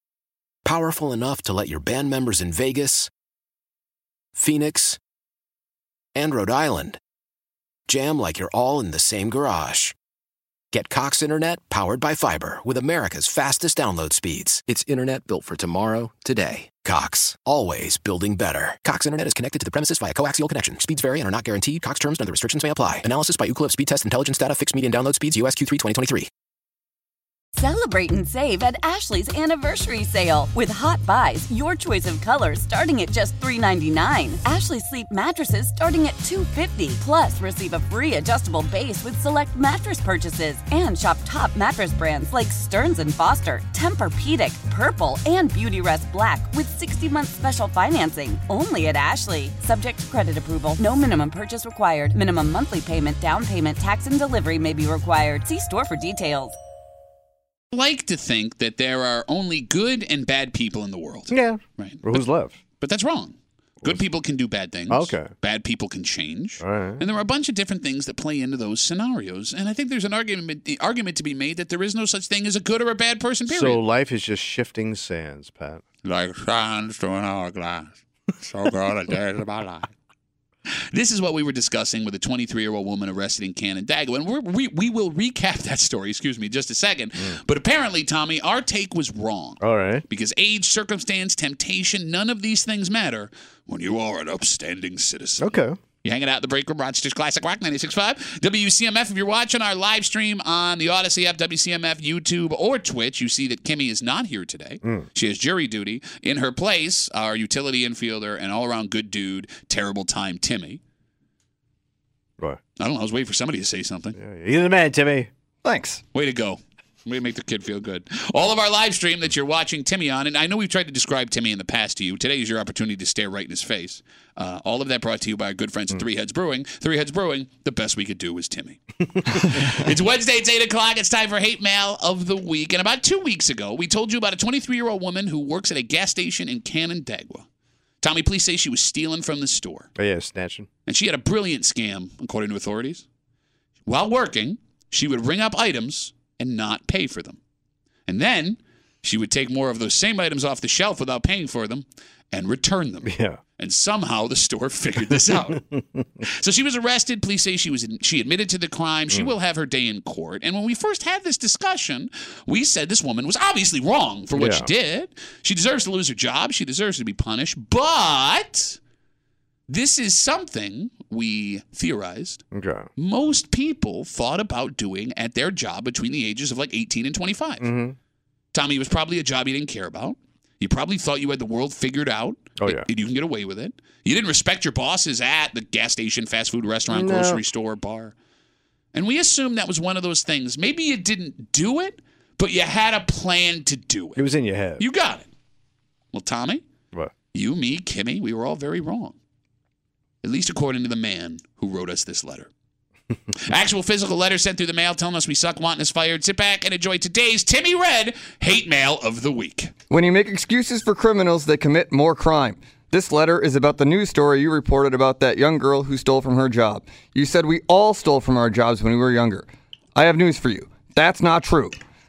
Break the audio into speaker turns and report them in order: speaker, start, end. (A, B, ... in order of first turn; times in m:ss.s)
0:00.6-0:03.1 A
0:04.3-0:05.0 A
0:06.1-0:07.0 A
0:07.9-0:09.9 A
0:10.7-0:26.3 A
0:27.6-0:56.6 B
0:57.7-1:02.2 C
1:01.3-1:02.6 D
1:02.8-1:13.8 C
1:04.9-1:05.3 D
1:06.6-1:07.0 D
1:13.5-1:15.8 D
1:16.0-1:19.9 C
1:20.9-1:35.5 C
1:29.6-1:30.0 D
1:35.4-1:35.8 D
1:36.0-1:50.8 C
1:44.8-1:45.1 D
1:52.8-1:54.2 C
1:54.2-1:55.3 D
1:55.6-1:56.0 E
1:56.1-2:17.4 C
2:18.0-2:19.9 C
2:20.0-2:20.7 D
2:20.9-2:23.0 C
2:23.8-2:27.4 C
2:28.1-2:35.6 C
2:33.0-2:33.4 D
2:36.2-2:48.8 C
2:44.3-2:44.7 D
2:49.7-2:52.4 C
2:52.5-2:52.9 D
2:53.0-2:57.7 C
2:57.6-2:58.0 D
2:58.5-3:08.1 C
3:06.9-3:07.4 D
3:08.9-3:14.2 C
3:14.2-3:14.8 D
3:14.8-3:15.3 C
3:16.1-3:16.6 C
3:17.3-3:19.2 C
3:20.2-3:22.5 C
3:23.4-3:29.7 C
3:29.9-3:41.8 E